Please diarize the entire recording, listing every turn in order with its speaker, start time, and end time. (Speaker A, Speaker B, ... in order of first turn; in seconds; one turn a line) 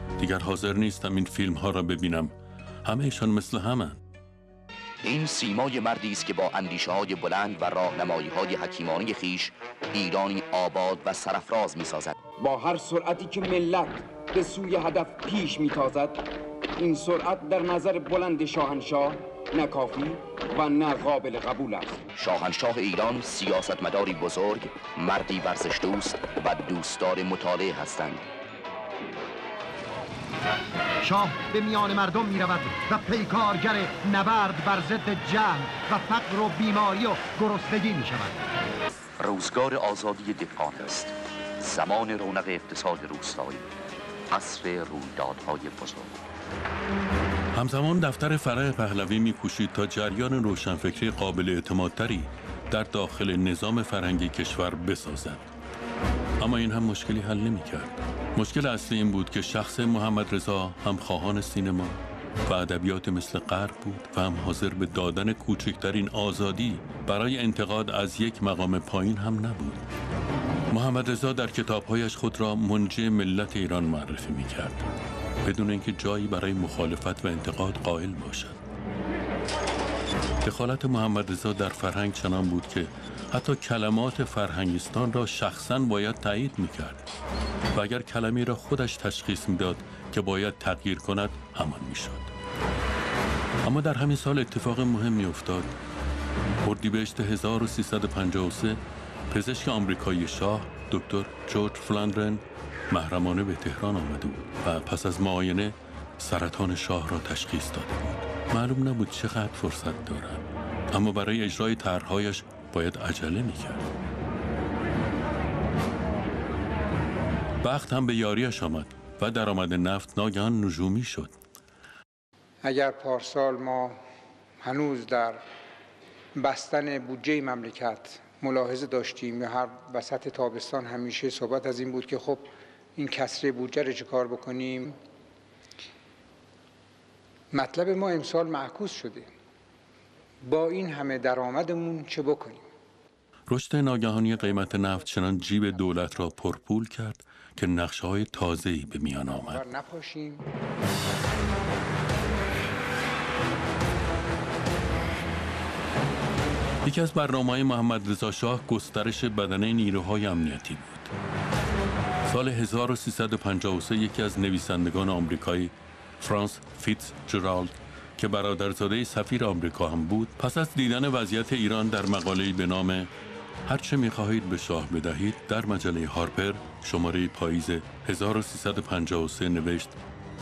Speaker A: 0.2-4.0
Speaker B: 5.0-12.2
Speaker C: 12.4-16.2
Speaker C: 16.8-22.0
Speaker B: 22.1-28.2
Speaker D: 31.0-38.4
Speaker B: 39.2-43.7
Speaker B: 44.3-46.2
Speaker A: 47.5-55.5
Speaker A: 56.4-69.8
Speaker A: 70.7-74.8
Speaker A: 75.4-78.6
Speaker A: 80.4-87.1
Speaker A: 87.7-92.3
Speaker A: 93.6-95.7
Speaker A: 96.6-113.9
Speaker A: 117.6-121.3
Speaker E: 122.6-124.0
Speaker E: 124.6-125.4
Speaker E: 126.3-135.0
Speaker E: 137.5-139.3
Speaker E: 140.4-142.6
Speaker A: 143.5-149.6
Speaker E: 149.3-150.4
Speaker A: 156.8-161.1
Speaker A: 162.3-173.1
Speaker A: 173.7-179.9